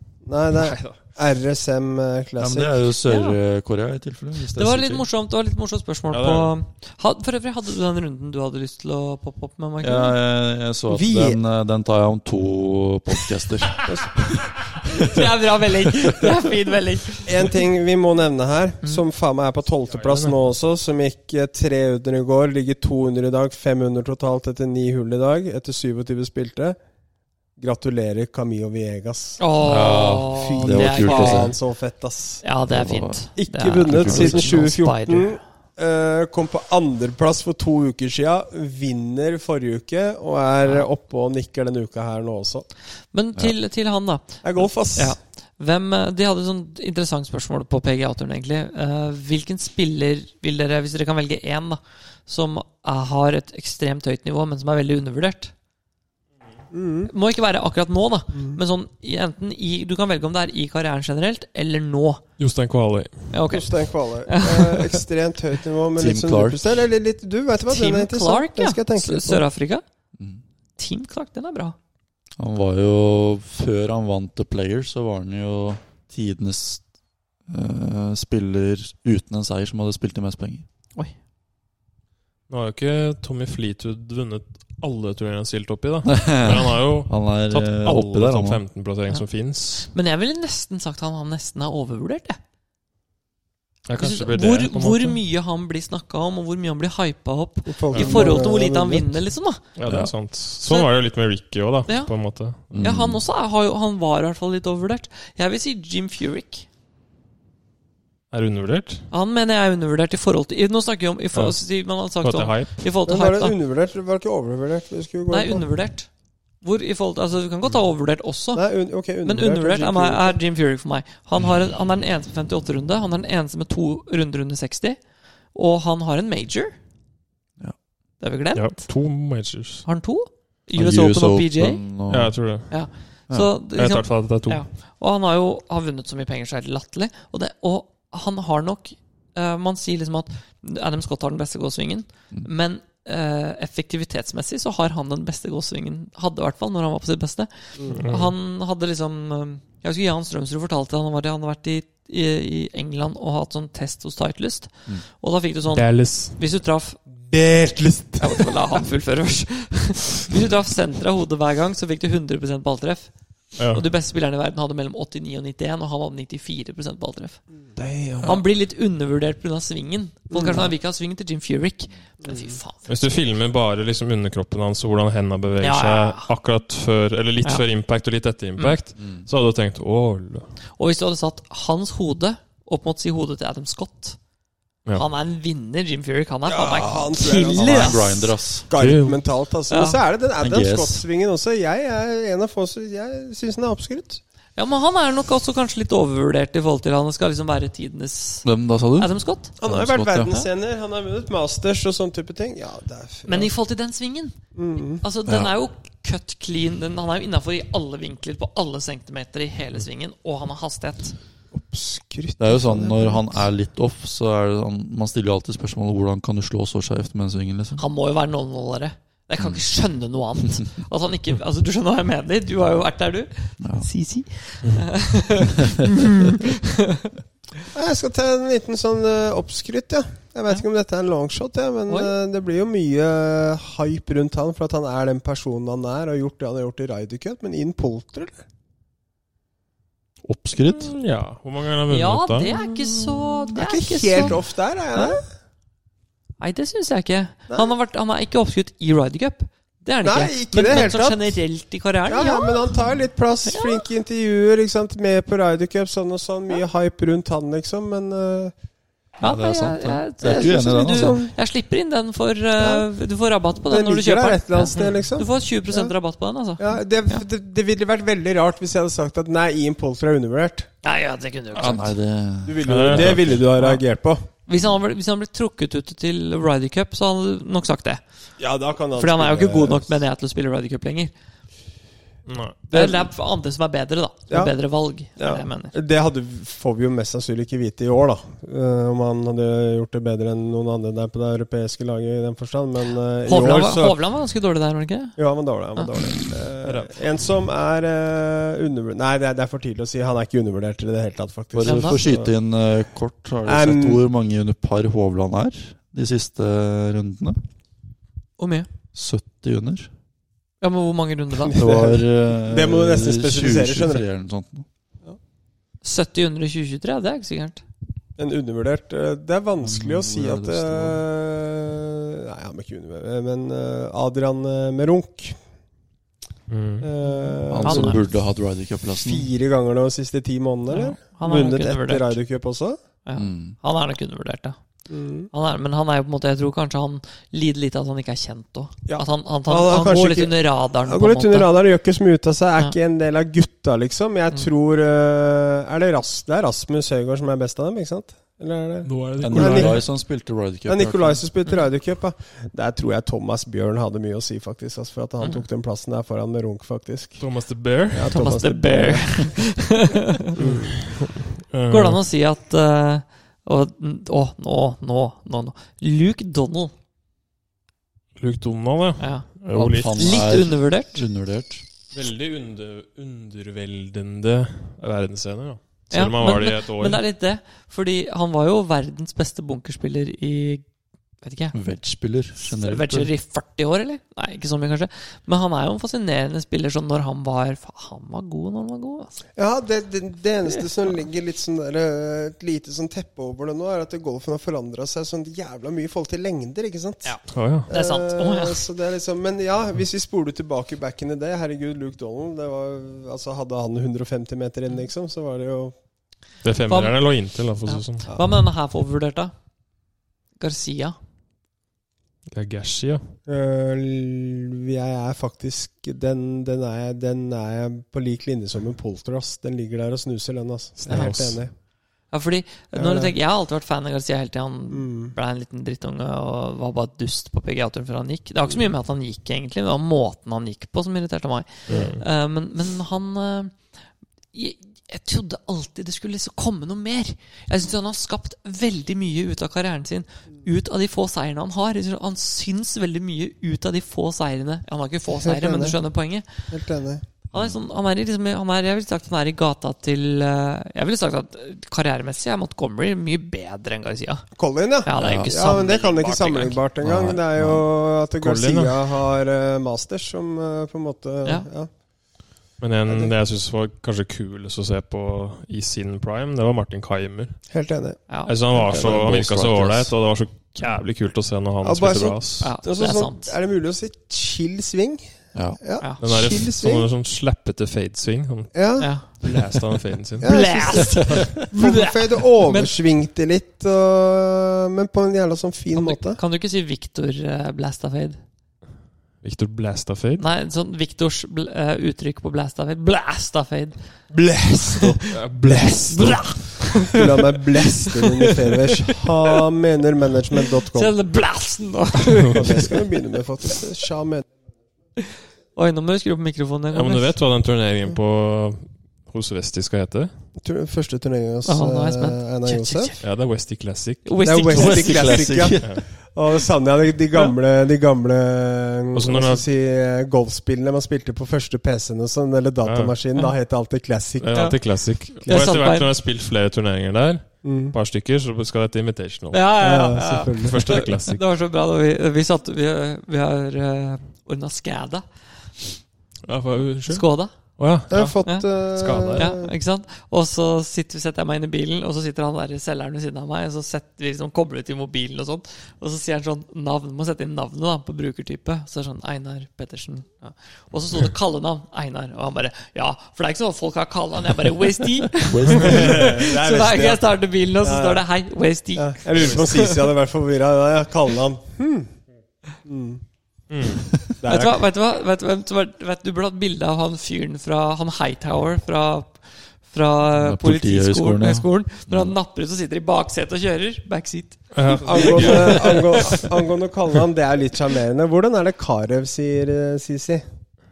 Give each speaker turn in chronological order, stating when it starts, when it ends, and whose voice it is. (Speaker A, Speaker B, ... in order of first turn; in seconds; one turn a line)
Speaker A: 0.2-2.7
Speaker B: 0.6-1.0
Speaker C: 2.4-5.1
Speaker D: 3.0-3.4
Speaker D: 4.6-10.2
Speaker B: 6.1-6.6
Speaker C: 9.8-13.9
Speaker A: 10.9-11.4
Speaker A: 13.8-14.2
Speaker D: 14.9-17.4
Speaker A: 17.2-26.8
Speaker B: 19.9-20.4
Speaker A: 27.6-29.4
Speaker D: 29.4-31.5
Speaker C: 29.6-31.6
Speaker A: 30.3-32.4
Speaker D: 32.4-35.4
Speaker C: 32.7-33.3
Speaker A: 33.4-42.7
Speaker C: 33.9-34.6
Speaker D: 43.1-55.5
Speaker A: 44.4-45.1
Speaker A: 56.7-57.1
Speaker D: 57.1-62.2
Speaker A: 58.3-58.6
Speaker B: 62.4-63.4
Speaker D: 63.3-65.0
Speaker A: 63.5-69.4
Speaker C: 66.0-66.8
Speaker D: 67.7-69.8
Speaker C: 70.2-70.4
Speaker D: 70.8-71.8
Speaker C: 72.4-76.8
Speaker C: 77.5-80.7
Speaker B: 82.5-89.9
Speaker C: 86.1-88.6
Speaker D: 89.9-92.4
Speaker B: 93.9-95.2
Speaker D: 94.0-99.6
Speaker A: 97.7-99.2
Speaker B: 97.9-98.4
Speaker B: 99.8-102.7
Speaker C: 99.9-100.1
Speaker D: 100.6-100.9
Speaker D: 101.9-106.7
Speaker C: 102.7-103.2
Speaker B: 108.3-109.1
Speaker D: 109.1-113.5
Speaker B: 111.3-112.9
Speaker A: 113.1-115.7
Speaker D: 115.3-116.1
Speaker D: 116.6-118.6
Speaker A: 118.5-120.4
Speaker D: 119.2-125.0
Speaker D: 125.5-126.8
Speaker D: 128.2-128.8
Speaker B: 128.6-129.9
Speaker D: 129.8-131.8
Speaker C: 130.8-132.5
Speaker B: 132.1-133.0
Speaker D: 132.7-157.0
Speaker B: 133.7-134.6
Speaker A: 147.8-148.0
Speaker B: 147.9-148.3
Speaker B: 155.7-156.4
Speaker A: 157.1-158.6
Speaker D: 158.2-163.1
Speaker B: 163.6-163.9
Speaker D: 163.7-167.4
Speaker A: 167.7-168.4
Speaker D: 168.2-172.9
Speaker A: 170.3-170.7
Speaker A: 172.2-172.6
Speaker B: 172.9-180.5
Speaker D: 175.6-176.3
Speaker C: 179.0-179.3
Speaker D: 180.7-184.2
Speaker D: 184.9-188.3
Speaker A: 186.5-194.2
Speaker C: 187.5-188.7
Speaker B: 188.8-189.2
Speaker D: 189.7-190.0
Speaker C: 190.4-191.0
Speaker D: 194.6-199.5
Speaker C: 198.4-200.3
Speaker A: 199.6-203.5
Speaker D: 203.3-204.4
Speaker A: 204.6-205.0
Speaker D: 204.9-211.1
Speaker C: 205.3-205.5
Speaker A: 211.5-213.2
Speaker C: 212.4-217.8
Speaker D: 217.8-227.1
Speaker C: 223.6-223.9
Speaker A: 227.7-238.4
Speaker D: 231.9-232.1
Speaker C: 240.2-240.9
Speaker B: 240.7-242.6
Speaker D: 241.9-244.4
Speaker A: 243.6-245.2
Speaker D: 246.4-252.7
Speaker A: 250.0-251.4
Speaker A: 252.1-258.6
Speaker D: 253.4-253.8
Speaker D: 259.2-267.2
Speaker C: 259.2-261.2
Speaker A: 260.2-261.4
Speaker A: 262.6-262.9
Speaker A: 263.6-265.9
Speaker A: 266.6-270.7
Speaker D: 270.8-271.9
Speaker C: 271.6-273.3
Speaker A: 272.4-274.3
Speaker B: 272.6-273.4
Speaker D: 273.6-273.8
Speaker D: 274.5-278.0
Speaker A: 278.4-280.0
Speaker D: 278.9-281.1
Speaker B: 282.3-282.6
Speaker D: 282.7-285.8
Speaker A: 282.7-283.1
Speaker A: 284.3-294.0
Speaker D: 293.3-295.2
Speaker A: 295.2-302.3
Speaker B: 296.6-297.0
Speaker C: 301.5-307.4
Speaker D: 301.6-302.0
Speaker A: 303.4-304.0
Speaker D: 308.4-308.7
Speaker C: 308.9-309.9
Speaker D: 310.6-311.6
Speaker A: 311.4-314.1
Speaker C: 311.6-314.7
Speaker D: 315.8-317.6
Speaker A: 318.2-325.4
Speaker C: 319.6-321.0
Speaker B: 326.5-326.9
Speaker A: 326.8-328.1
Speaker C: 327.5-329.3
Speaker D: 327.6-328.0
Speaker A: 328.9-332.8
Speaker D: 330.7-332.2
Speaker D: 333.1-334.6
Speaker C: 333.2-333.6
Speaker A: 334.9-335.3
Speaker D: 335.3-341.5
Speaker A: 338.9-349.9
Speaker B: 348.9-349.9
Speaker C: 349.2-351.2
Speaker A: 350.7-357.2
Speaker B: 357.2-358.1
Speaker A: 357.9-359.5
Speaker D: 358.1-360.3
Speaker A: 360.4-360.8
Speaker B: 360.4-362.0
Speaker D: 361.7-366.7
Speaker B: 368.2-370.3
Speaker D: 369.0-371.1
Speaker C: 369.5-371.6
Speaker B: 371.9-377.0
Speaker D: 375.9-380.6
Speaker D: 381.2-381.6
Speaker C: 381.5-383.1
Speaker D: 382.4-389.2
Speaker A: 389.4-397.1
Speaker D: 397.0-398.6
Speaker B: 397.3-397.7
Speaker A: 397.7-405.7
Speaker B: 406.4-408.1
Speaker D: 406.7-407.0
Speaker D: 407.7-409.3
Speaker D: 410.4-410.9
Speaker B: 412.3-413.1
Speaker A: 413.3-421.5
Speaker B: 420.8-421.4
Speaker D: 420.9-421.1
Speaker D: 422.1-433.7
Speaker A: 422.7-423.1
Speaker A: 424.7-425.1
Speaker B: 431.7-432.0
Speaker D: 434.3-446.5
Speaker A: 445.2-445.8
Speaker A: 446.5-447.1
Speaker D: 447.3-454.3
Speaker A: 454.4-461.7
Speaker D: 454.8-456.6
Speaker C: 455.0-455.3
Speaker C: 456.8-457.6
Speaker B: 458.2-458.8
Speaker B: 462.6-467.4
Speaker A: 467.5-468.9
Speaker D: 468.1-468.4
Speaker B: 468.3-472.5
Speaker C: 468.7-469.9
Speaker A: 471.6-476.9
Speaker D: 472.4-473.3
Speaker C: 475.3-475.6
Speaker B: 476.0-481.3
Speaker A: 478.5-478.9
Speaker D: 478.8-479.1
Speaker A: 480.2-486.2
Speaker D: 480.2-482.8
Speaker D: 485.7-488.2
Speaker B: 489.2-490.2
Speaker D: 490.2-494.0
Speaker A: 494.1-500.9
Speaker D: 494.7-498.4
Speaker B: 495.1-496.3
Speaker D: 500.7-502.9
Speaker A: 502.3-504.3
Speaker D: 505.5-507.1
Speaker B: 506.7-510.1
Speaker A: 510.4-512.9
Speaker D: 511.4-513.1
Speaker B: 513.0-514.1
Speaker D: 514.0-515.3
Speaker A: 514.2-524.5
Speaker C: 514.5-515.7
Speaker B: 518.9-519.4
Speaker B: 522.6-523.0
Speaker B: 524.2-529.4
Speaker A: 525.2-525.7
Speaker D: 525.2-525.9
Speaker A: 527.4-527.8
Speaker D: 529.3-535.0
Speaker A: 529.6-530.9
Speaker B: 530.4-531.2
Speaker B: 536.3-537.1
Speaker D: 536.9-537.4
Speaker B: 537.6-539.4
Speaker A: 537.9-539.5
Speaker D: 539.1-559.9
Speaker C: 555.2-556.1
Speaker A: 555.6-558.0
Speaker A: 558.8-562.0
Speaker B: 559.1-559.4
Speaker A: 562.6-563.0
Speaker B: 563.5-563.9
Speaker A: 564.2-564.6
Speaker D: 564.3-576.2
Speaker C: 570.2-572.1
Speaker B: 574.5-576.2
Speaker A: 574.8-580.2